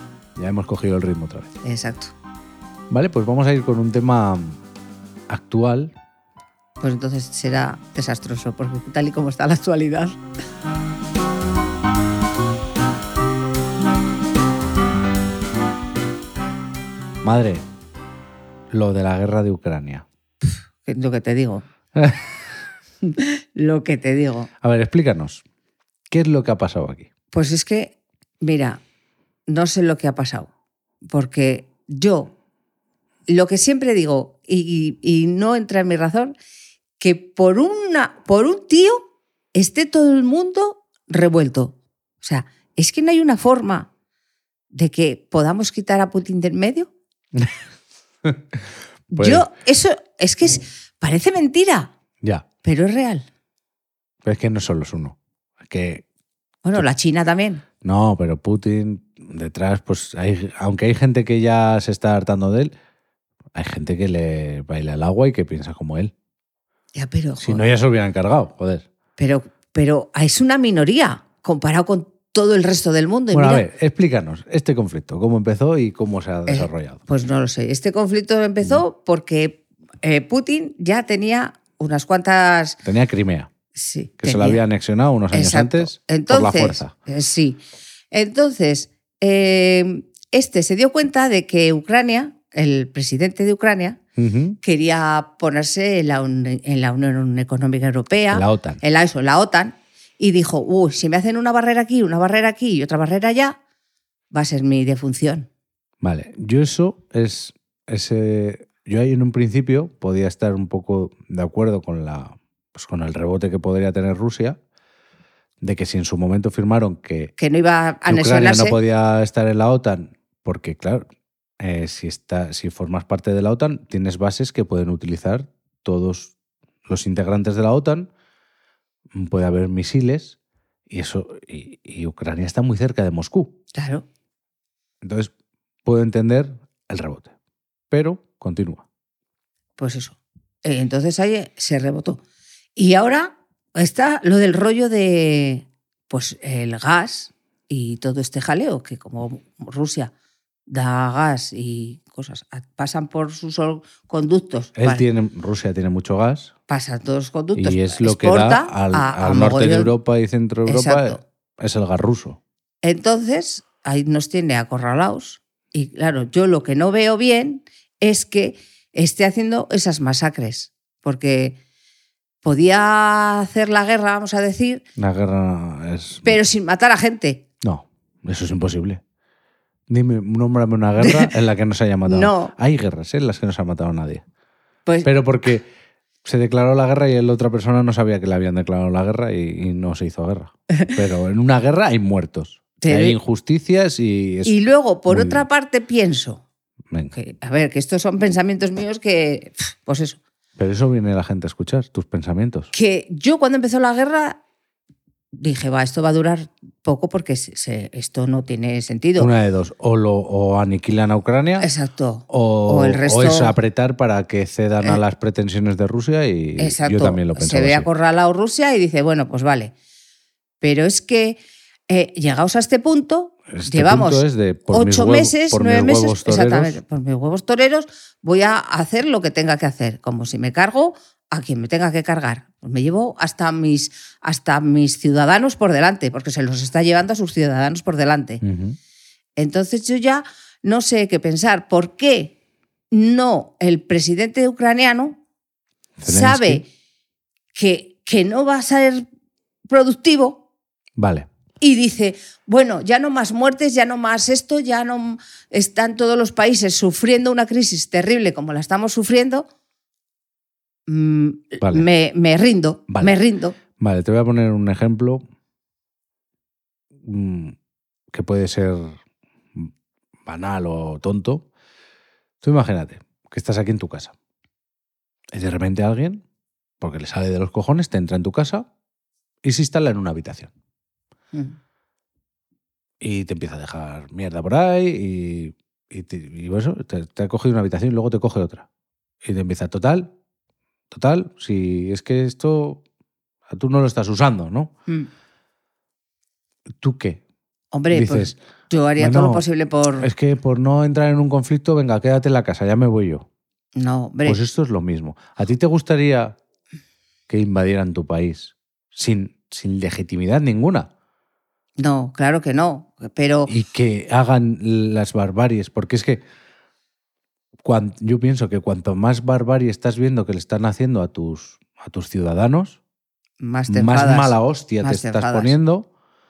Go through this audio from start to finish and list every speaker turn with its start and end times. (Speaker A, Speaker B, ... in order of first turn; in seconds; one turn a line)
Speaker A: 0.4-1.5
Speaker B: 1.6-2.1
Speaker A: 2.9-4.6
Speaker A: 5.3-5.9
Speaker B: 6.8-10.2
Speaker A: 17.2-17.6
Speaker A: 18.7-20.1
Speaker B: 20.8-21.6
Speaker A: 21.9-22.4
Speaker B: 23.0-24.5
Speaker A: 24.6-25.4
Speaker A: 26.1-27.1
Speaker B: 27.3-28.8
Speaker B: 29.5-30.5
Speaker B: 31.1-32.3
Speaker B: 33.3-36.3
Speaker B: 37.0-39.0
Speaker B: 39.5-43.9
Speaker B: 44.7-46.9
Speaker B: 49.1-51.9
Speaker A: 49.1-49.5
Speaker B: 52.6-53.3
Speaker A: 54.2-56.0
Speaker B: 56.6-57.6
Speaker A: 57.8-62.7
Speaker A: 63.5-66.1
Speaker B: 66.9-67.6
Speaker A: 67.4-68.8
Speaker B: 69.2-73.7
Speaker A: 73.3-77.0
Speaker B: 76.5-82.8
Speaker A: 82.8-83.5
Speaker B: 83.7-84.6
Speaker A: 84.2-86.9
Speaker B: 85.3-94.0
Speaker A: 94.2-94.6
Speaker B: 94.6-103.6
Speaker A: 98.3-98.8
Speaker B: 104.3-105.5
Speaker A: 106.0-114.6
Speaker A: 115.6-117.3
Speaker B: 117.4-118.8
Speaker A: 118.0-121.0
Speaker A: 121.6-126.3
Speaker A: 126.9-128.1
Speaker A: 129.1-130.4
Speaker A: 130.9-133.5
Speaker B: 133.7-134.1
Speaker A: 135.0-135.3
Speaker A: 135.8-137.3
Speaker A: 137.9-138.8
Speaker B: 139.8-142.2
Speaker B: 142.8-150.1
Speaker B: 150.7-155.0
Speaker A: 154.8-156.5
Speaker B: 156.7-159.9
Speaker A: 157.5-162.4
Speaker B: 160.7-161.2
Speaker B: 162.8-171.6
Speaker B: 172.4-174.8
Speaker A: 175.0-176.4
Speaker B: 176.2-177.4
Speaker A: 177.6-179.0
Speaker A: 179.9-184.2
Speaker B: 181.0-181.3
Speaker B: 182.1-182.5
Speaker A: 185.0-185.7
Speaker A: 186.2-194.6
Speaker B: 192.8-193.2
Speaker B: 194.4-196.4
Speaker A: 195.1-195.4
Speaker B: 197.1-200.2
Speaker A: 200.6-202.7
Speaker B: 202.7-204.4
Speaker B: 205.3-209.3
Speaker A: 209.2-211.7
Speaker B: 211.6-213.5
Speaker A: 212.3-217.9
Speaker B: 216.6-219.7
Speaker B: 220.6-238.4
Speaker A: 223.5-226.8
Speaker A: 238.4-238.8
Speaker B: 239.4-242.3
Speaker B: 242.9-245.2
Speaker A: 246.0-246.6
Speaker B: 246.1-246.7
Speaker B: 247.5-249.0
Speaker B: 249.7-250.4
Speaker A: 251.0-251.3
Speaker B: 251.6-259.5
Speaker B: 260.9-263.6
Speaker A: 261.6-261.9
Speaker A: 262.9-263.2
Speaker A: 263.8-265.2
Speaker A: 267.0-267.6
Speaker A: 268.1-269.0
Speaker A: 270.2-271.4
Speaker A: 272.4-274.1
Speaker A: 275.3-276.2
Speaker A: 276.8-278.7
Speaker A: 279.4-280.5
Speaker A: 283.0-288.6
Speaker A: 289.2-290.1
Speaker A: 290.9-292.8
Speaker A: 293.5-294.7
Speaker A: 296.8-297.2
Speaker B: 297.7-300.1
Speaker A: 297.9-298.4
Speaker A: 299.0-299.4
Speaker A: 300.0-303.3
Speaker B: 303.8-304.4
Speaker A: 304.2-306.4
Speaker A: 307.3-310.9
Speaker B: 311.8-313.5
Speaker A: 313.5-316.2
Speaker A: 317.6-322.8
Speaker B: 323.4-325.5
Speaker A: 323.7-325.9